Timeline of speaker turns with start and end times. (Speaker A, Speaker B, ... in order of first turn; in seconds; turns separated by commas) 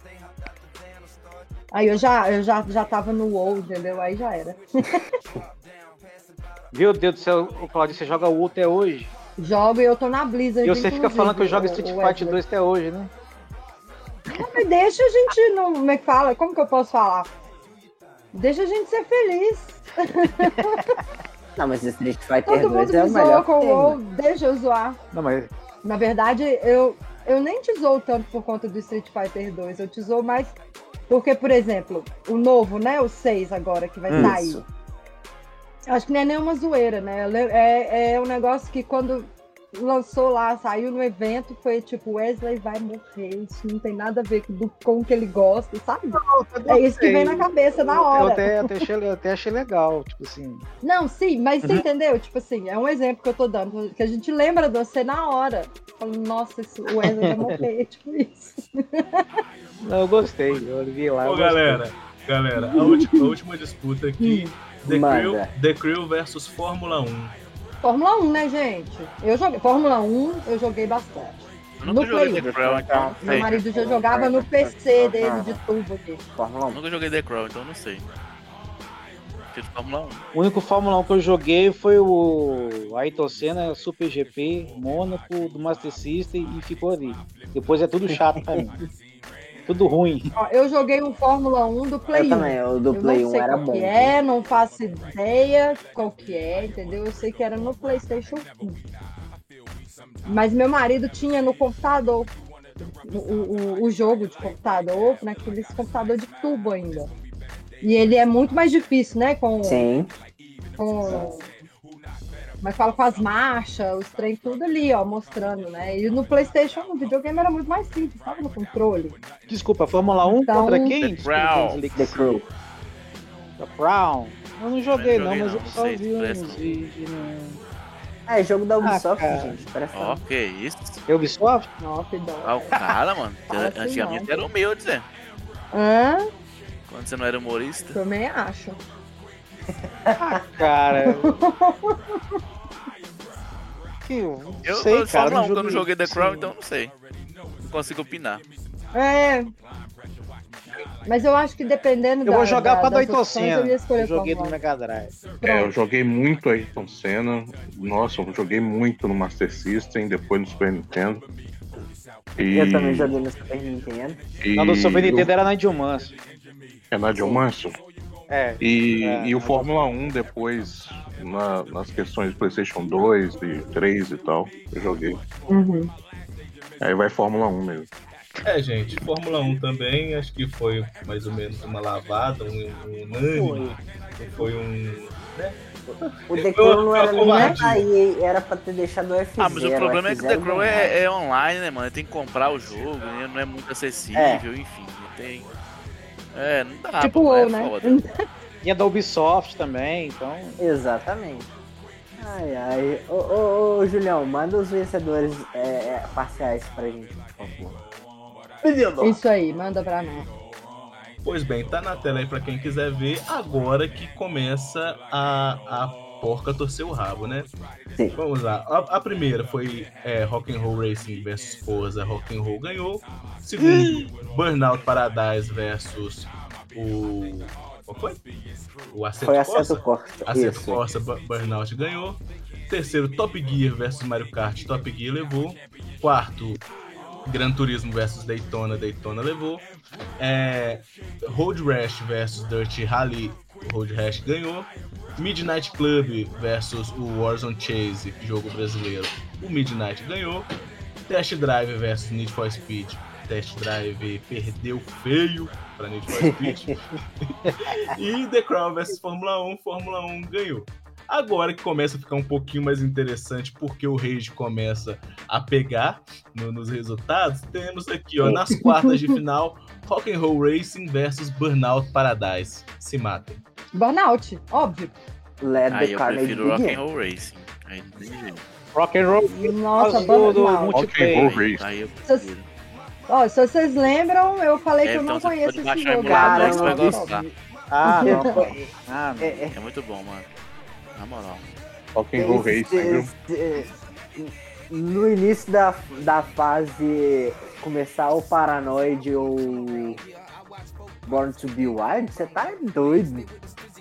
Speaker A: 1.7-5.0, Speaker B: 6.7-9.1, Speaker A: 9.4-12.4, Speaker B: 10.6-13.1, Speaker A: 14.3-17.3, Speaker A: 18.3-20.9, Speaker C: 21.6-24.0, Speaker A: 22.5-25.0, Speaker B: 25.1-25.5, Speaker A: 25.8-30.5, Speaker A: 31.1-34.6, Speaker B: 34.1-34.4, Speaker C: 34.1-34.6, Speaker A: 35.9-48.8, Speaker B: 46.1-50.6, Speaker A: 50.8-59.2, Speaker B: 59.8-61.8, Speaker D: 61.2-67.3, Speaker A: 62.6-63.0, Speaker A: 64.2-64.5, Speaker C: 64.8-65.5, Speaker A: 67.8-72.5, Speaker E: 71.8-73.5, Speaker C: 72.3-75.6, Speaker A: 73.2-76.2, Speaker C: 76.4-76.8, Speaker E: 76.7-78.0, Speaker E: 79.5-80.2, Speaker B: 80.3-88.8, Speaker C: 88.1-88.7, Speaker B: 89.7-90.3, Speaker A: 90.3-98.8, Speaker C: 92.1-94.2, Speaker A: 100.2-102.3, Speaker A: 102.8-107.1, Speaker A: 107.8-109.8, Speaker C: 109.6-110.1, Speaker A: 110.8-111.4, Speaker A: 112.6-119.2, Speaker B: 119.5-122.4, Speaker A: 120.3-121.0, Speaker E: 120.9-121.8, Speaker C: 121.9-122.4, Speaker B: 123.6-127.6, Speaker E: 124.9-126.9, Speaker C: 128.3-130.2, Speaker B: 128.8-129.6, Speaker E: 129.9-131.0, Speaker B: 131.1-131.7, Speaker A: 131.8-132.7, Speaker E: 132.4-135.1, Speaker A: 133.5-134.4, Speaker A: 135.7-136.2, Speaker E: 136.9-138.0, Speaker A: 137.9-138.8, Speaker C: 139.7-140.4, Speaker B: 140.2-141.3, Speaker A: 141.0-141.9, Speaker B: 144.0-146.5, Speaker E: 144.6-146.9, Speaker E: 147.6-148.4, Speaker A: 148.9-149.5, Speaker A: 151.1-154.6, Speaker B: 152.2-155.2, Speaker A: 155.4-155.7, Speaker F: 155.4-161.2, Speaker F: 162.4-163.1, Speaker C: 162.5-164.2, Speaker F: 164.4-165.3, Speaker B: 164.6-166.1, Speaker F: 166.9-167.8, Speaker C: 167.1-167.4, Speaker B: 168.3-169.7, Speaker F: 168.6-175.2, Speaker A: 175.5-175.9, Speaker F: 176.8-177.9, Speaker D: 178.4-185.6, Speaker C: 183.3-183.7, Speaker D: 186.3-187.9, Speaker C: 186.3-191.0, Speaker A: 187.2-187.6, Speaker E: 189.4-195.5, Speaker C: 194.1-194.4, Speaker E: 196.3-198.0, Speaker A: 197.0-198.1, Speaker B: 198.6-200.6, Speaker C: 200.6-201.5, Speaker C: 202.2-207.8, Speaker C: 208.6-209.2, Speaker A: 209.0-210.3, Speaker D: 211.2-217.5, Speaker D: 218.2-228.2, Speaker C: 223.7-224.0, Speaker D: 228.9-236.6, Speaker C: 229.2-230.8, Speaker D: 237.3-239.7, Speaker D: 240.2-250.5, Speaker D: 251.1-273.4, Speaker C: 256.1-256.7, Speaker A: 268.5-269.0, Speaker A: 273.7-274.9, Speaker C: 275.4-276.8, Speaker E: 275.7-278.4, Speaker B: 278.7-281.3, Speaker A: 279.3-280.9, Speaker C: 279.9-280.4, Speaker F: 280.7-281.7, Speaker E: 281.1-282.4, Speaker A: 283.1-287.2, Speaker E: 284.8-287.2, Speaker C: 286.0-287.3, Speaker B: 287.7-289.4, Speaker A: 287.8-288.3, Speaker C: 288.0-289.6, Speaker E: 289.5-290.2, Speaker E: 290.9-291.5, Speaker F: 291.9-293.1, Speaker C: 292.1-300.0, Speaker C: 301.0-303.3